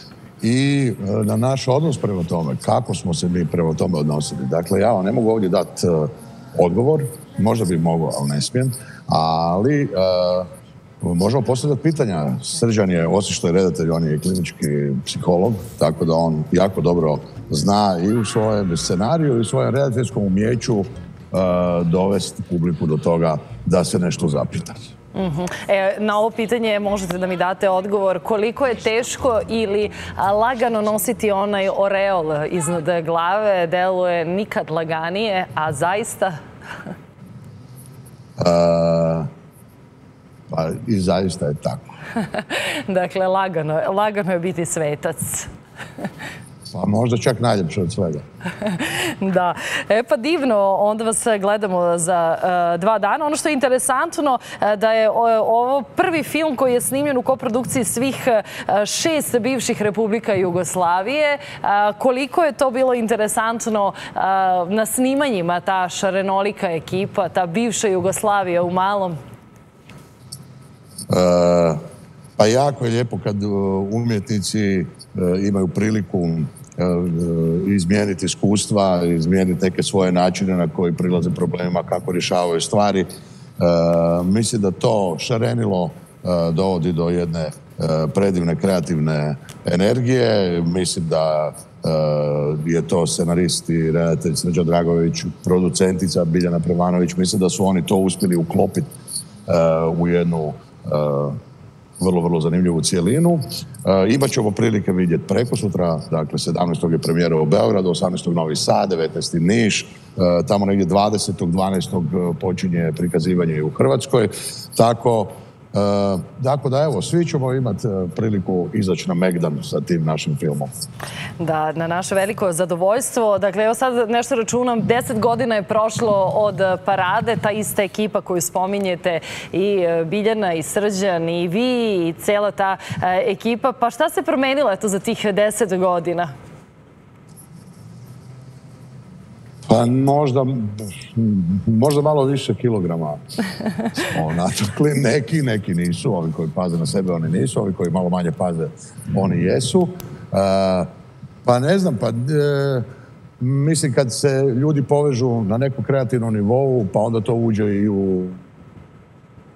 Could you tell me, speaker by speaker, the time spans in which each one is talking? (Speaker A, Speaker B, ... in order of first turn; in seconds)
Speaker A: 0.4-10.5, 11.0-24.9, 38.4-39.3, 40.5-41.8, 46.7-48.2, 71.1-71.8, 72.4-98.9, 99.5-101.4, 102.0-120.7, 139.7-143.2, 143.9-150.9, 151.4-152.9, 153.4-158.4
Speaker B: 25.1-36.3, 42.2-45.5, 48.6-69.2, 121.4-136.3